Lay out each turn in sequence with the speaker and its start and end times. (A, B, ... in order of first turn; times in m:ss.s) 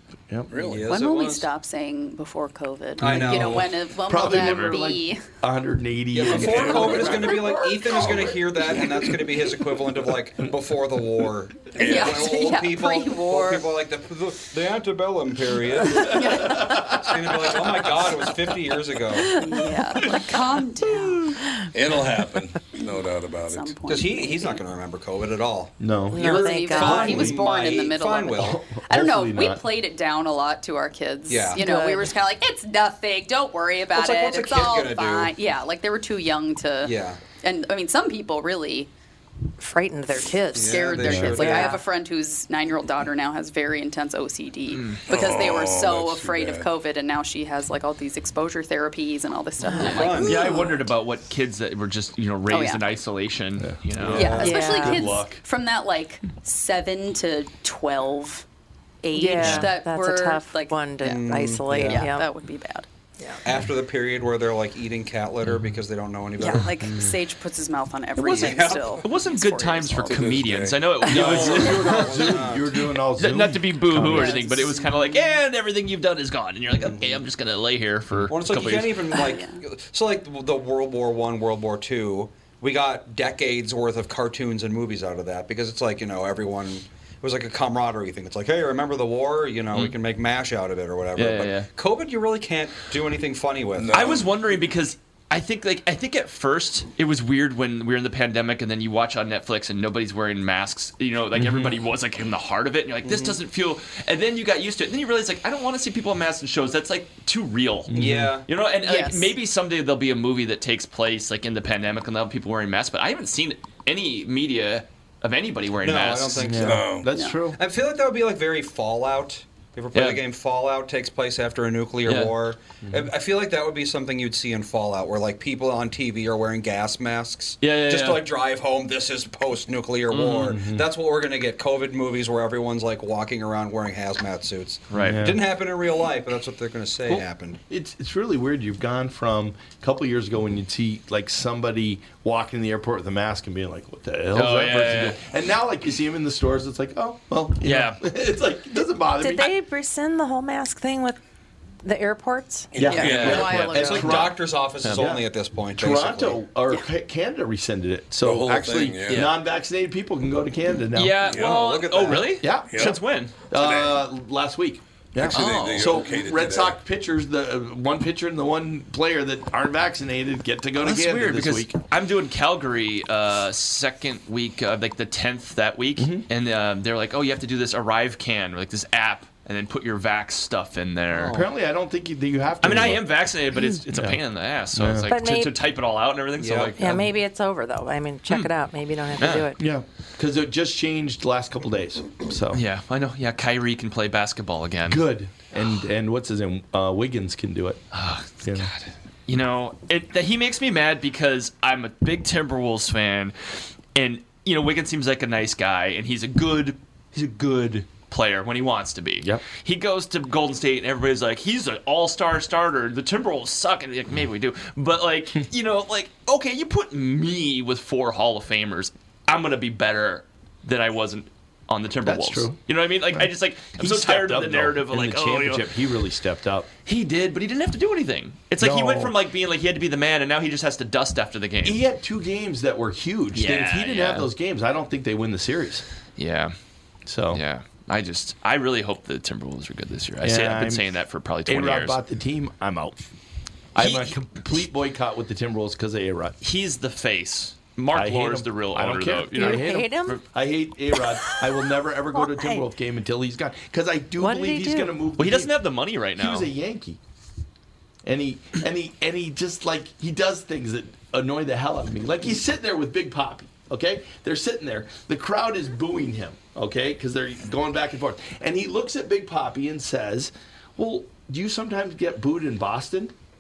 0:00.5-0:00.9 A
0:00.6-0:01.5 B
0:00.9-0:05.2 C
0:03.0-0:03.6 B
0:03.0-0:09.4 D
0:04.3-0:04.8 E
0:06.1-0:19.4 B
0:06.3-0:07.4 A
0:11.7-0:12.4 A
0:11.8-0:13.7 C
0:15.9-0:17.1 C
0:19.3-0:21.5 C
0:21.7-0:23.7 A
0:23.4-0:24.6 C
0:23.9-0:28.6 B
0:25.8-0:27.4 D
0:26.1-0:27.3 F
0:26.2-0:38.9 C
0:28.4-0:29.6 D
0:31.3-0:31.6 B
0:31.6-0:32.1 F
0:33.9-0:35.3 B
0:36.8-0:37.2 B
0:39.6-0:41.8 F
0:40.6-0:41.8 B
0:40.6-0:50.8 C
0:41.0-0:41.3 D
0:44.7-0:45.0 E
0:45.1-0:46.7 A
0:49.7-0:50.6 B
0:49.8-0:50.2 F
0:50.2-0:54.4 E
0:52.5-0:52.8 C
0:53.6-0:55.4 D
0:54.1-0:54.5 B
0:54.1-0:58.4 C
0:54.4-0:55.1 F
0:59.0-1:00.8 C
0:59.1-1:02.3 F
0:59.4-0:59.7 D
1:01.0-1:02.0 B
1:01.8-1:02.8 C
1:03.4-1:06.7 B
1:05.5-1:05.7 D
1:06.4-1:10.3 C
1:06.8-1:07.2 D
1:08.2-1:12.4 E
1:08.3-1:09.0 B
1:10.1-1:11.0 A
1:11.0-1:12.8 B
1:11.1-1:14.4 D
1:13.2-1:19.2 E
1:13.9-1:14.7 B
1:14.1-1:15.2 C
1:16.8-1:17.2 B
1:18.3-1:34.1 B
1:19.1-1:19.6 C
1:31.2-1:31.7 E
1:33.8-1:34.3 A
1:33.9-1:56.6 E
1:41.4-1:41.8 D
1:43.0-1:43.4 B
1:47.9-1:48.4 D
1:47.9-1:48.5 B
1:48.8-1:49.3 C
1:55.8-1:57.0 B
1:56.4-1:57.6 D
1:56.6-1:57.1 A
1:57.1-1:57.4 C
1:57.5-2:17.6 B
1:59.9-2:00.2 E
2:02.0-2:02.3 E
2:02.8-2:03.1 D
2:07.6-2:08.3 E
2:10.1-2:10.6 E
2:10.4-2:10.9 D
2:14.9-2:15.3 E
2:15.0-2:15.4 D
2:17.0-2:29.5 D
2:24.3-2:25.2 E
2:27.6-2:28.0 E
2:29.2-2:31.2 F
2:31.8-2:32.7 F
2:32.7-2:33.7 A
2:32.8-2:41.3 D
2:32.8-2:34.2 C
2:33.2-2:36.4 B
2:38.2-2:39.3 A
2:39.1-2:39.3 E
2:40.9-2:43.3 E
2:41.3-2:41.7 A
2:41.3-2:42.5 B
2:42.1-2:43.0 D
2:42.6-2:43.0 A
2:43.5-2:51.7 D
2:43.5-2:44.0 A
2:45.2-2:46.8 A
2:45.3-2:46.0 E
2:50.8-3:01.4 E
2:56.0-2:56.2 D
3:01.1-3:01.5 B
3:01.3-3:03.1 D
3:02.6-3:07.0 E
3:03.9-3:04.2 D
3:04.7-3:05.1 D
3:05.1-3:05.6 F
3:06.4-3:06.8 B
3:06.8-3:09.6 F
3:09.2-3:09.4 E
3:09.6-3:12.6 D
3:12.5-3:15.1 E
3:14.9-3:17.8 D
3:17.9-3:23.3 E
3:18.4-3:18.7 D
3:23.9-3:45.7 E
3:42.0-3:46.7 D
3:46.8-3:51.8 E
3:48.6-3:49.2 D
3:51.6-3:55.8 D
3:53.3-3:54.3 E
3:56.2-3:56.5 E
3:57.1-3:57.4 D
3:57.3-4:02.0 E
4:00.2-4:00.8 D
4:01.4-4:03.0 D
4:03.7-4:04.2 E
4:03.7-4:06.4 D
4:06.4-4:10.2 E
4:07.9-4:15.5 D
4:09.3-4:10.2 F
4:12.2-4:12.6 F
4:14.2-4:15.0 F
4:15.2-4:16.5 E
4:16.2-4:17.0 D
4:18.0-4:33.1 D